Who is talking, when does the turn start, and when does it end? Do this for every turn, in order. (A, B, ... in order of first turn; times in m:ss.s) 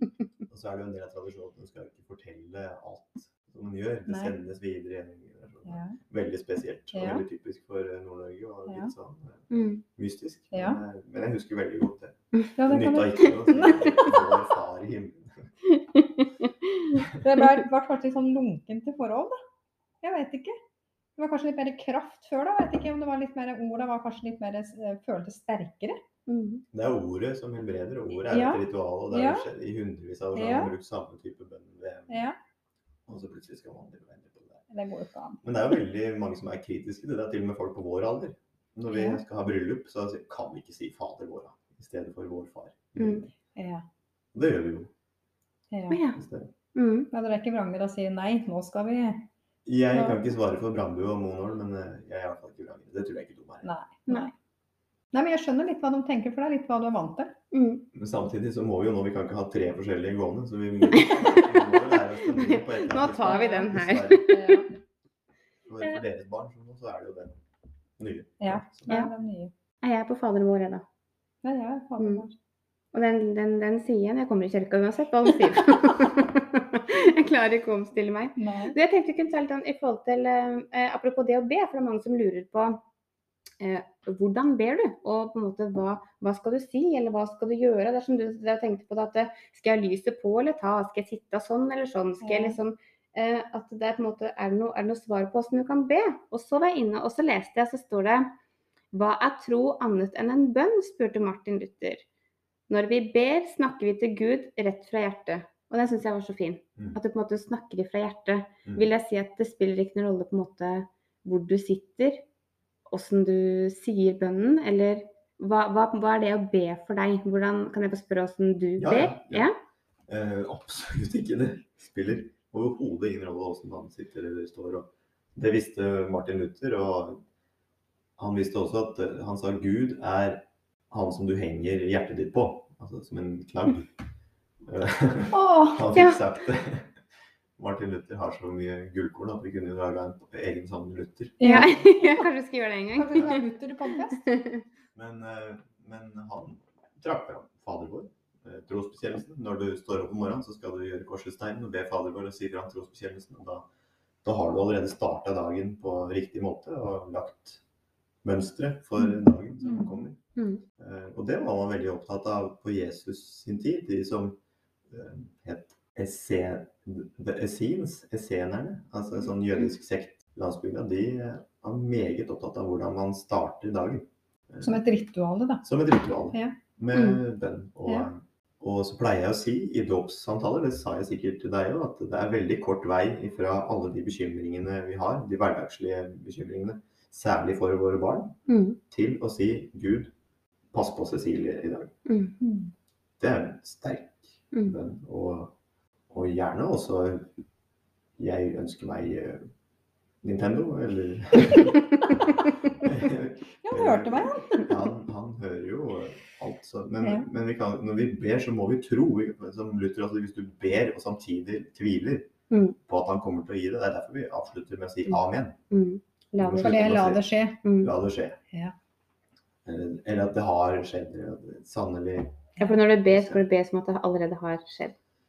0:00.5-0:15.5 A
0:04.1-0:04.3 B
0:05.7-0:06.0 B
0:06.9-0:07.2 B
0:08.7-0:08.9 B
0:09.5-0:09.8 C
0:10.5-0:10.8 B
0:12.6-0:13.8 B
0:13.7-0:14.2 C
0:15.7-0:17.0 C
0:17.1-0:19.4 B
0:20.0-0:20.6 B
0:21.2-0:26.0 B
0:26.3-0:26.6 C
0:26.7-0:32.3 A
0:28.3-0:29.5 B
0:30.4-0:30.7 B
0:32.1-0:32.4 B
0:33.1-0:34.6 A
0:34.7-0:35.4 B
0:35.4-0:43.3 A
0:38.9-0:39.2 B
0:43.0-0:43.3 C
0:43.6-0:43.8 B
0:44.3-0:44.9 A
0:45.7-0:46.0 B
0:45.9-0:46.2 C
0:46.2-0:46.5 A
0:46.8-0:47.1 C
0:47.1-0:49.3 B
0:49.6-0:53.7 A
0:49.9-0:50.2 B
0:53.6-0:54.3 B
0:55.1-0:57.3 B
0:57.5-0:57.9 C
0:57.9-1:04.2 A
1:00.9-1:01.7 C
1:02.3-1:04.6 C
1:03.3-1:03.7 B
1:04.3-1:04.7 B
1:05.7-1:07.4 A
1:08.0-1:08.9 A
1:08.4-1:09.5 B
1:09.8-1:10.8 C
1:11.4-1:12.3 B
1:12.0-1:12.2 C
1:12.9-1:22.8 C
1:18.4-1:18.8 B
1:23.6-1:38.3 C
1:32.2-1:32.6 B
1:38.9-1:42.0 C
1:42.7-1:52.2 C
1:52.9-1:59.5 C
1:58.8-1:59.5 A
2:00.1-2:07.2 A
2:08.2-2:13.9 A
2:14.7-2:17.0 A
2:15.3-2:15.9 B
2:17.6-2:21.5 A
2:21.4-2:21.7 B
2:21.4-2:24.6 C
2:23.0-2:24.2 B
2:25.0-2:33.7 A
2:34.2-2:37.6 A
2:38.2-2:40.2 A
2:39.0-2:40.0 B
2:40.4-2:40.6 C
2:40.8-2:44.4 A
2:44.9-2:54.8 A
2:54.6-2:55.6 B
2:55.6-3:08.4 A
2:56.9-2:57.2 C
3:08.5-3:08.8 C
3:08.9-3:10.1 A
3:10.7-3:11.9 A
3:12.1-3:12.3 C
3:12.4-3:12.7 B
3:13.2-3:15.5 A
3:16.1-3:17.3 A
3:18.2-3:19.4 A
3:20.2-3:32.3 A
3:23.6-3:24.7 B
3:32.5-3:32.8 C
3:32.9-3:35.6 A
3:35.7-3:37.1 C
3:36.4-3:37.2 A
3:36.6-3:37.6 B
3:37.6-3:37.9 C
3:37.8-3:38.4 A
3:39.6-3:42.4 A
3:42.6-3:45.0 C
3:43.1-3:43.4 A